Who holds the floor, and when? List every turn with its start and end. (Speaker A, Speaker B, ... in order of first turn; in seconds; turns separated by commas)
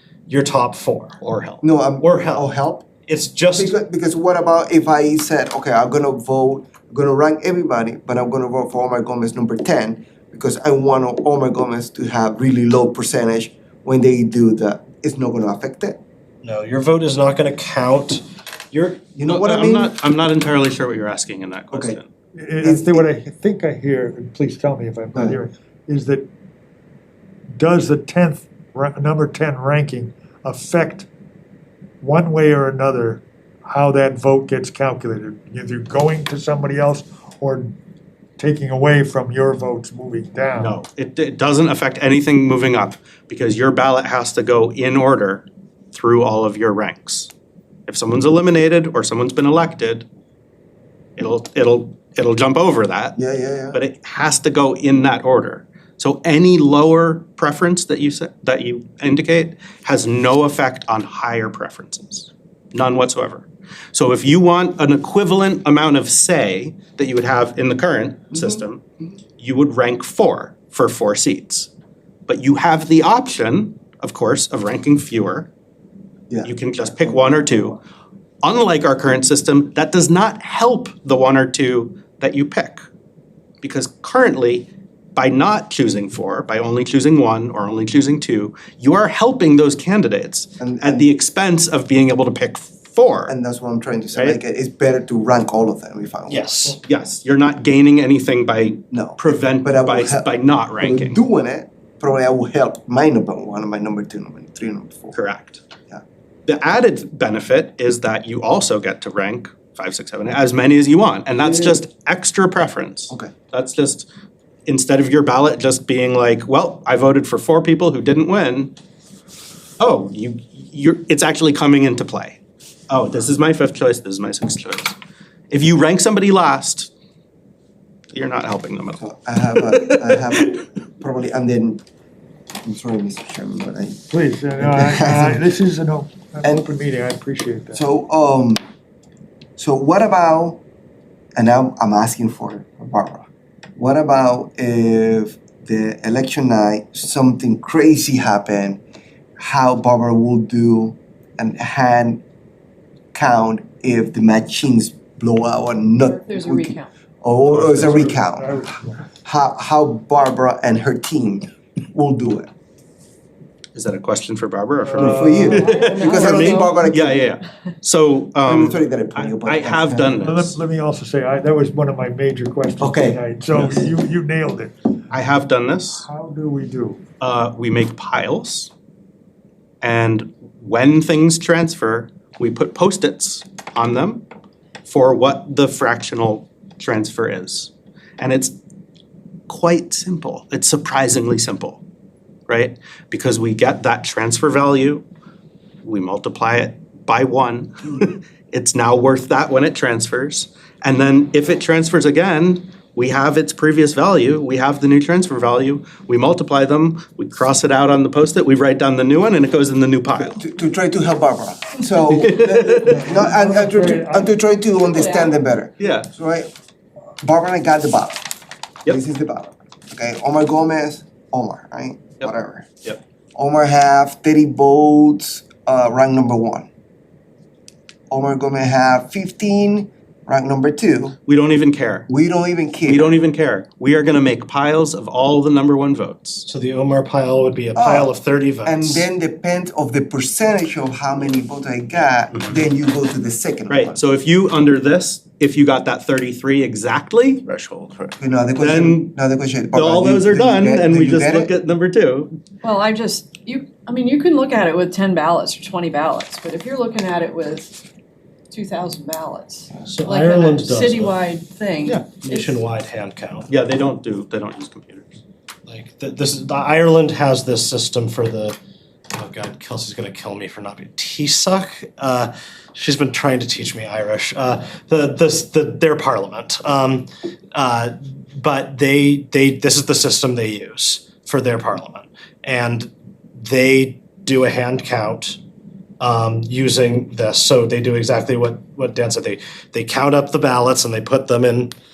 Speaker A: 0.3-1.2, Speaker B: 1.2-1.6, Speaker C: 1.6-2.9, Speaker A: 2.0-2.5, Speaker A: 3.0-3.7, Speaker C: 3.5-16.0, Speaker A: 16.4-19.0, Speaker C: 19.1-19.9, Speaker B: 19.2-22.1, Speaker C: 21.7-22.0, Speaker D: 22.4-26.3, Speaker C: 22.6-23.0, Speaker D: 27.6-31.1, Speaker D: 32.0-37.8, Speaker D: 38.4-40.8, Speaker B: 40.6-47.3, Speaker B: 47.9-50.0, Speaker B: 51.2-53.2, Speaker C: 53.2-53.8, Speaker B: 53.7-68.8, Speaker C: 68.3-68.6, Speaker B: 69.4-71.7, Speaker B: 72.3-75.5, Speaker C: 76.3-77.6, Speaker B: 76.4-77.8, Speaker B: 78.4-82.8, Speaker B: 83.6-93.3, Speaker C: 90.6-91.1, Speaker C: 93.3-96.8, Speaker B: 94.1-94.4, Speaker A: 96.3-96.8, Speaker B: 96.8-101.2, Speaker C: 98.9-105.2, Speaker B: 105.1-105.6, Speaker B: 106.5-114.0, Speaker B: 114.7-118.7, Speaker B: 119.8-122.4, Speaker B: 122.9-125.0, Speaker B: 125.5-126.9, Speaker B: 128.1-129.0, Speaker C: 129.0-131.8, Speaker B: 129.6-130.6, Speaker C: 132.6-134.0, Speaker D: 134.1-137.8, Speaker C: 134.6-135.4, Speaker C: 136.4-136.7, Speaker C: 137.7-138.6, Speaker C: 139.6-140.6, Speaker C: 141.3-143.2, Speaker C: 143.8-148.8, Speaker C: 149.4-152.2, Speaker C: 153.1-158.6, Speaker E: 156.0-156.9, Speaker D: 157.6-159.1, Speaker C: 159.2-162.5, Speaker B: 163.7-170.6, Speaker D: 164.8-165.6, Speaker C: 165.0-167.2, Speaker E: 165.5-166.8, Speaker A: 166.0-166.7, Speaker C: 168.4-170.2, Speaker D: 170.2-174.7, Speaker C: 172.8-173.2, Speaker B: 173.5-173.9, Speaker B: 175.1-176.1, Speaker D: 176.0-177.0, Speaker B: 177.2-178.7, Speaker B: 179.8-184.2, Speaker B: 184.8-188.6, Speaker B: 189.5-191.8, Speaker B: 192.5-195.0, Speaker B: 195.8-210.4, Speaker C: 210.2-216.5, Speaker B: 212.1-213.1, Speaker D: 212.8-214.3, Speaker E: 214.9-215.3, Speaker B: 215.8-216.1, Speaker C: 217.2-218.3, Speaker C: 218.8-222.7, Speaker C: 223.3-226.7, Speaker C: 228.1-231.2, Speaker B: 231.2-232.1, Speaker C: 232.1-233.2, Speaker B: 232.8-236.4, Speaker A: 236.4-239.0, Speaker C: 237.7-244.0, Speaker B: 242.3-242.6, Speaker B: 243.7-249.1, Speaker C: 248.2-251.5, Speaker B: 249.7-252.4, Speaker E: 252.6-257.8, Speaker E: 258.5-262.6, Speaker A: 259.9-261.2, Speaker A: 262.2-263.5, Speaker B: 263.5-265.1, Speaker A: 265.7-268.6, Speaker A: 269.1-285.4, Speaker A: 286.0-291.7